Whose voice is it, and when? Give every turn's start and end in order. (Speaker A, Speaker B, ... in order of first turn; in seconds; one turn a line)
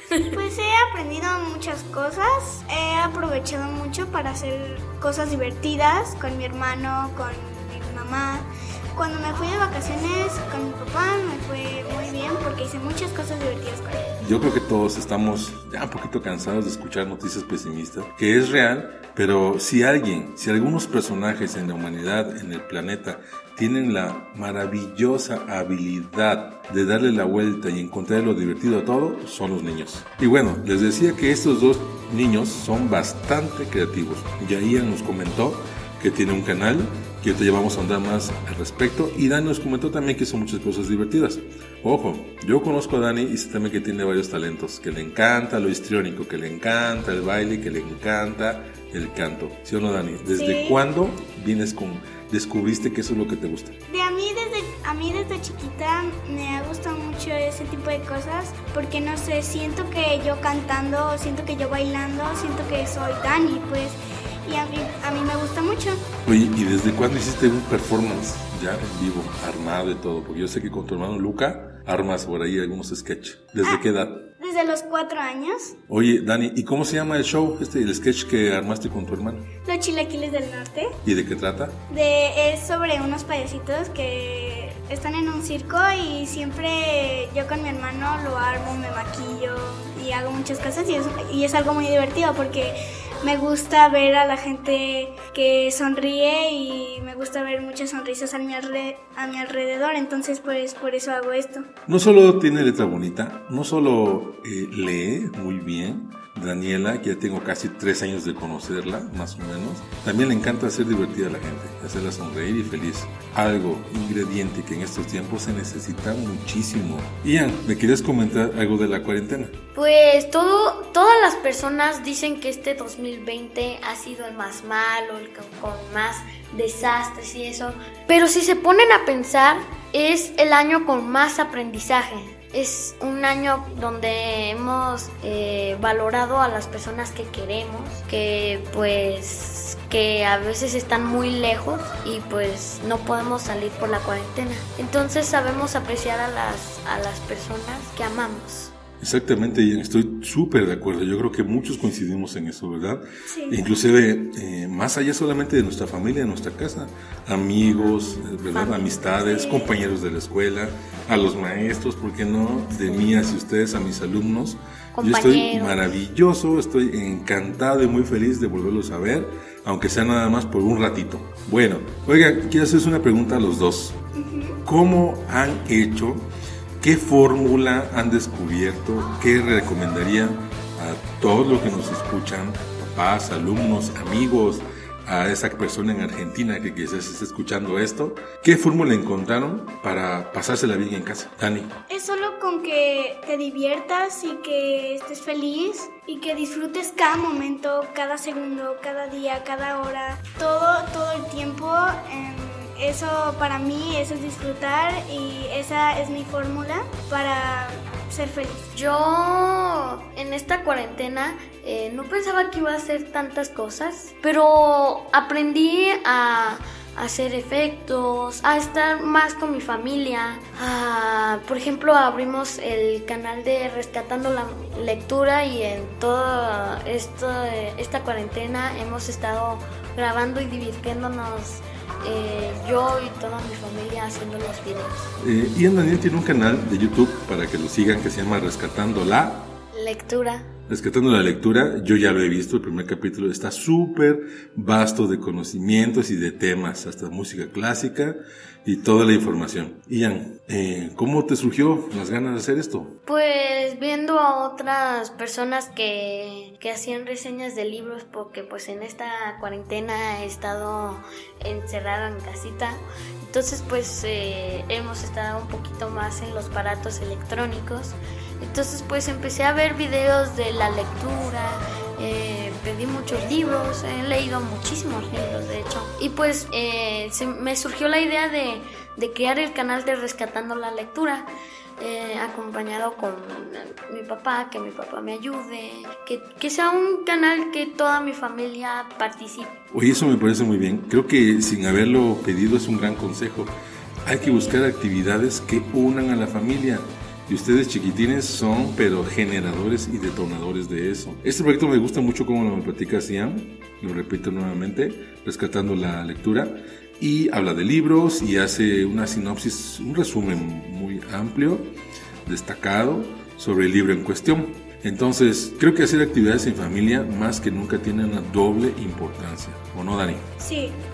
Speaker A: 0.2-14.0
Speaker B: 14.2-53.8
Speaker A: 50.4-50.8
Speaker A: 53.9-66.0
Speaker B: 66.2-74.3
Speaker A: 74.4-75.8
Speaker B: 75.9-79.5
Speaker A: 79.6-81.0
Speaker B: 81.0-81.8
Speaker A: 81.9-101.7
Speaker B: 101.9-119.6
Speaker C: 119.7-148.7
Speaker B: 149.0-174.0
Speaker A: 153.3-153.6
Speaker C: 158.5-159.1
Speaker A: 159.3-159.7
Speaker C: 164.9-165.8
Speaker A: 174.1-174.6
Speaker B: 174.6-176.3
Speaker B: 176.8-191.8
Speaker A: 191.9-208.7
Speaker C: 208.7-235.1
Speaker B: 235.2-239.5
Speaker C: 239.7-240.5
Speaker B: 240.7-253.0
Speaker C: 253.1-281.3
Speaker C: 281.8-289.5
Speaker B: 289.7-311.7
Speaker B: 312.2-320.3
Speaker A: 320.4-320.8